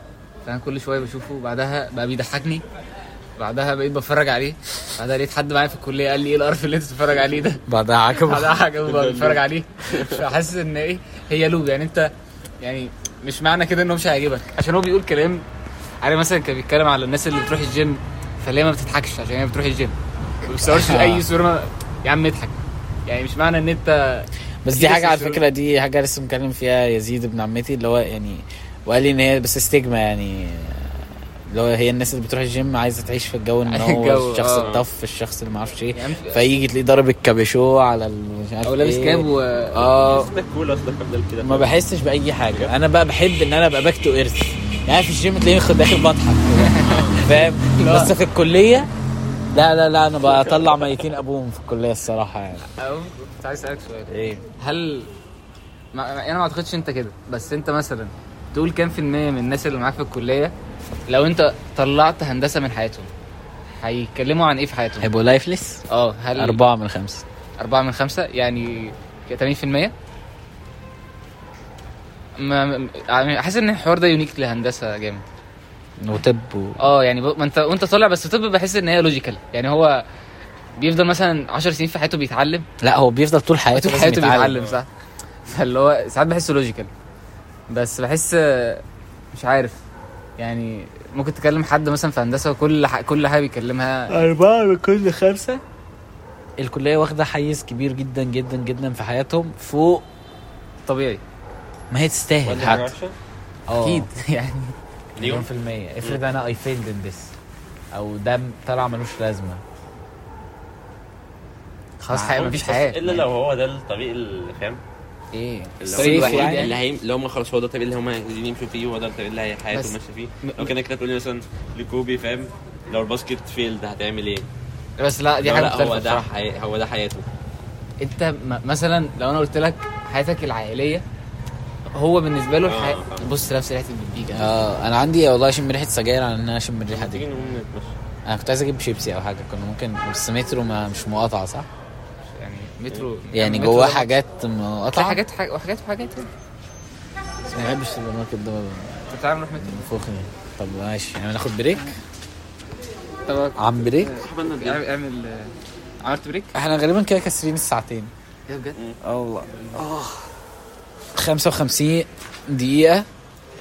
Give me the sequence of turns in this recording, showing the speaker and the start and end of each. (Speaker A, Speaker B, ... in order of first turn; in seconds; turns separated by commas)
Speaker A: 0.4-2.6, Speaker A: 3.4-7.6, Speaker B: 7.7-8.7, Speaker A: 8.2-15.4, Speaker C: 8.9-10.2, Speaker A: 16.0-25.4, Speaker B: 20.7-21.2, Speaker B: 24.6-40.3, Speaker A: 33.7-34.7, Speaker C: 34.6-34.8, Speaker A: 35.9-36.4, Speaker A: 38.6-39.8, Speaker C: 39.7-41.7, Speaker B: 41.4-48.9, Speaker A: 46.5-48.1, Speaker C: 46.8-47.2, Speaker B: 49.5-52.6, Speaker C: 50.2-51.0, Speaker A: 52.6-55.1, Speaker B: 54.1-54.4, Speaker A: 55.9-60.5, Speaker A: 61.1-63.1, Speaker A: 63.8-65.1, Speaker B: 65.0-65.8, Speaker A: 65.9-66.6, Speaker B: 66.3-67.2, Speaker A: 67.6-69.9, Speaker A: 72.3-75.2, Speaker B: 76.0-76.8, Speaker A: 76.8-80.0, Speaker A: 80.8-82.7, Speaker B: 82.8-84.6, Speaker A: 83.7-84.9, Speaker C: 84.5-84.8, Speaker A: 85.5-86.9, Speaker A: 87.7-89.8, Speaker A: 90.4-94.1, Speaker B: 94.1-95.6, Speaker B: 96.6-100.0, Speaker A: 100.9-101.2, Speaker B: 101.9-102.9, Speaker C: 102.4-103.2, Speaker B: 103.7-104.1, Speaker A: 103.8-104.8, Speaker C: 105.2-105.5, Speaker B: 105.2-107.3, Speaker B: 107.9-109.6, Speaker A: 112.0-113.2, Speaker B: 112.1-112.5, Speaker C: 112.3-114.8, Speaker A: 115.3-116.7, Speaker C: 115.8-124.5, Speaker B: 115.9-116.7, Speaker A: 119.7-120.7, Speaker A: 125.0-126.2, Speaker C: 125.4-127.3, Speaker A: 128.0-131.0, Speaker A: 131.9-134.5, Speaker C: 132.6-133.3, Speaker B: 134.3-137.2, Speaker C: 136.9-138.0, Speaker B: 138.3-141.7, Speaker A: 142.3-144.1, Speaker B: 143.3-145.2, Speaker A: 144.9-146.3, Speaker B: 147.5-149.0, Speaker A: 149.1-149.9, Speaker B: 149.6-151.9, Speaker A: 153.3-156.5, Speaker B: 153.6-154.1, Speaker C: 154.2-154.8, Speaker B: 156.5-158.1, Speaker A: 158.5-158.8, Speaker B: 159.0-160.2, Speaker A: 159.4-159.8, Speaker B: 161.2-163.1